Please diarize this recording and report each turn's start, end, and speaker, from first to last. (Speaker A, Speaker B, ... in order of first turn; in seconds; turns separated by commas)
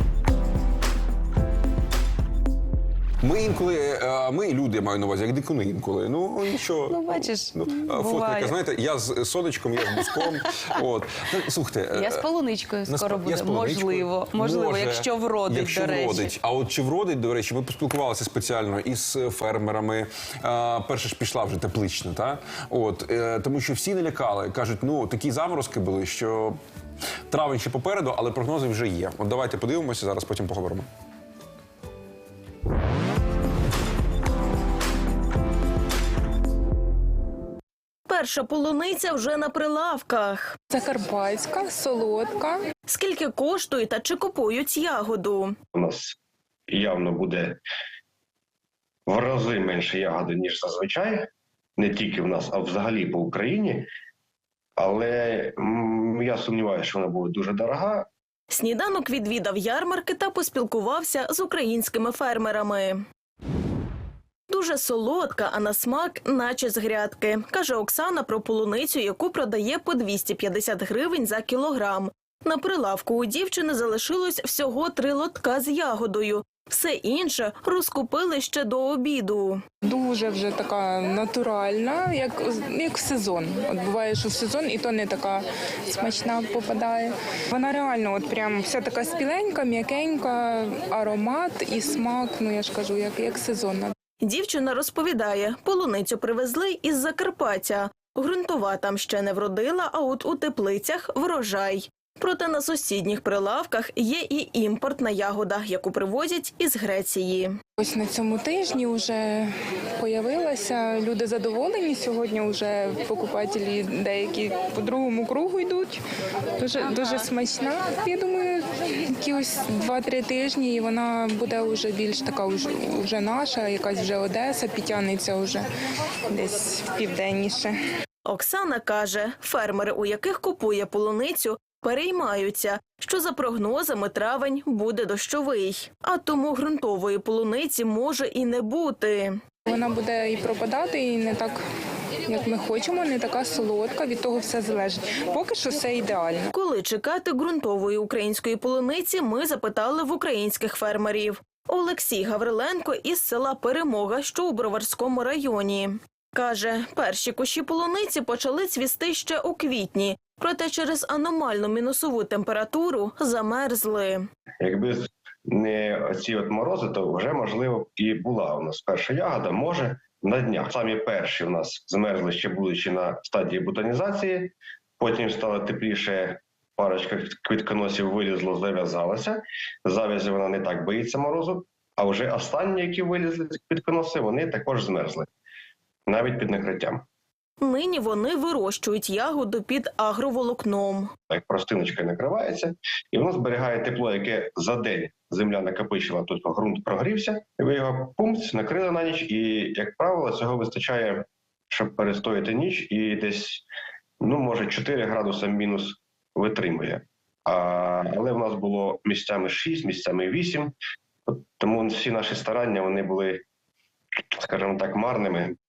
Speaker A: 3.2-12.2, Speaker B: 6.9-8.6, Speaker B: 11.9-16.3, Speaker A: 12.9-26.6, Speaker A: 27.3-30.9, Speaker C: 38.1-40.6, Speaker D: 40.7-42.6, Speaker C: 42.9-45.5, Speaker E: 45.7-46.1, Speaker E: 46.7-47.6, Speaker E: 49.1-53.9, Speaker E: 54.8-58.1, Speaker C: 58.5-63.0, Speaker C: 64.5-79.6, Speaker D: 79.9-93.9, Speaker C: 94.2-107.5, Speaker D: 107.8-116.0, Speaker D: 116.6-125.7, Speaker D: 126.3-127.8, Speaker C: 128.3-139.4, Speaker D: 139.7-141.6, Speaker D: 142.3-146.5, Speaker C: 146.5-164.2, Speaker E: 164.6-185.3, Speaker E: 186.1-187.1, Speaker C: 187.6-191.1, Speaker E: 191.3-203.7, Speaker E: 204.2-210.8, Speaker E: 211.3-213.4, Speaker E: 214.3-215.6